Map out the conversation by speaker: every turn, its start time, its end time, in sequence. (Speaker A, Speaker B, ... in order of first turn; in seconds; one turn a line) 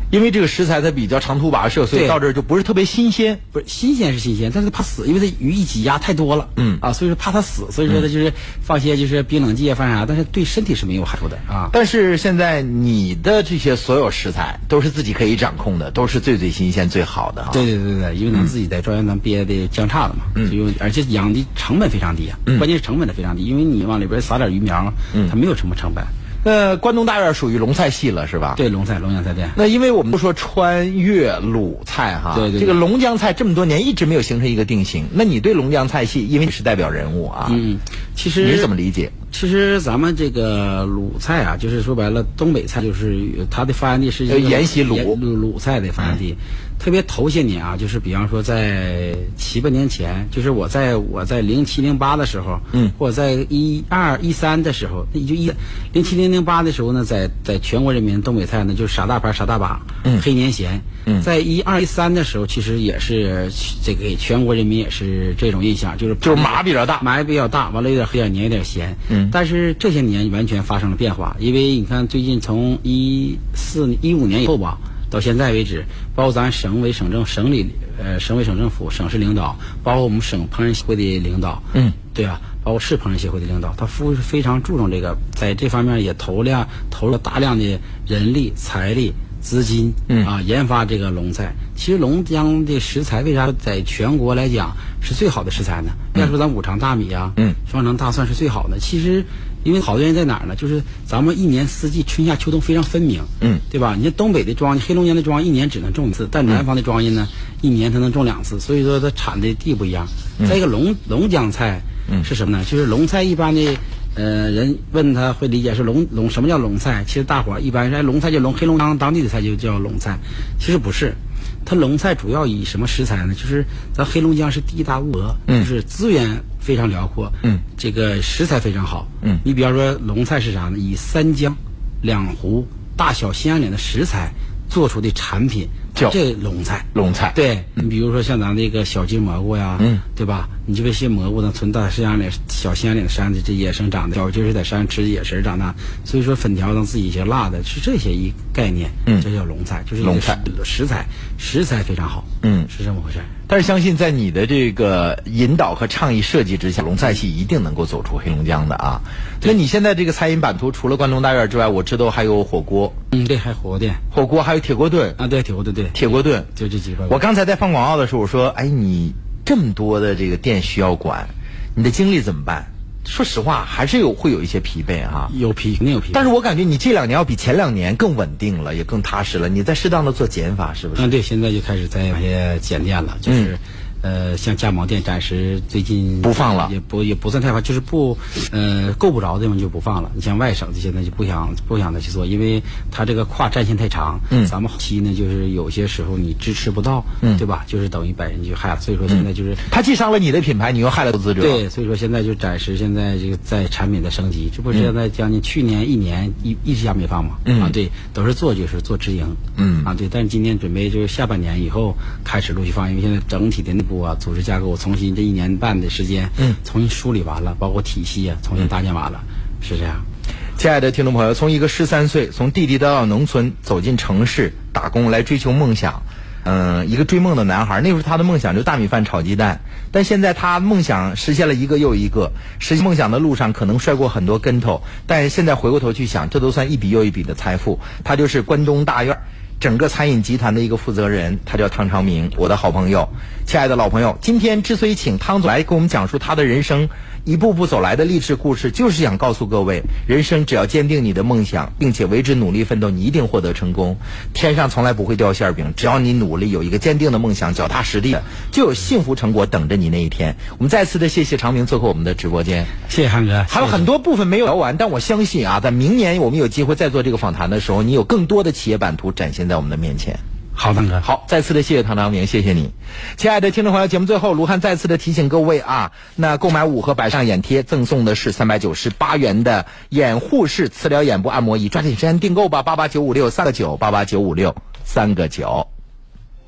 Speaker A: 0.1-3.4
Speaker B: 1.9-2.2
Speaker B: 3.5-11.7
Speaker A: 6.5-6.8
Speaker A: 11.7-17.6
Speaker B: 17.5-26.1
Speaker A: 26.4-28.6
Speaker B: 28.6-29.6
Speaker A: 29.5-37.6
Speaker B: 32.3-32.8
Speaker B: 37.5-38.7
Speaker A: 38.4-39.1
Speaker B: 39.3-153.3
Speaker A: 44.3-45.2
Speaker A: 66.2-67.0
Speaker A: 69.1-69.3
Speaker A: 136.9-137.4
Speaker A: 150.0-150.4
Speaker A: 152.4-152.7
Speaker A: 153.5-162.9
Speaker B: 163.1-164.0
Speaker A: 164.1-165.2
Speaker B: 165.2-167.2
Speaker A: 165.9-166.5
Speaker A: 167.1-175.3
Speaker B: 175.3-176.3
Speaker A: 176.1-181.1
Speaker B: 180.9-199.6
Speaker A: 183.2-183.6
Speaker A: 186.2-186.7
Speaker A: 199.1-201.6
Speaker B: 201.4-220.0
Speaker A: 207.4-207.8
Speaker A: 209.6-209.9
Speaker A: 220.6-262.7
Speaker B: 262.9-263.9
Speaker A: 263.5-270.2
Speaker B: 270.5-271.0
Speaker A: 271.0-285.7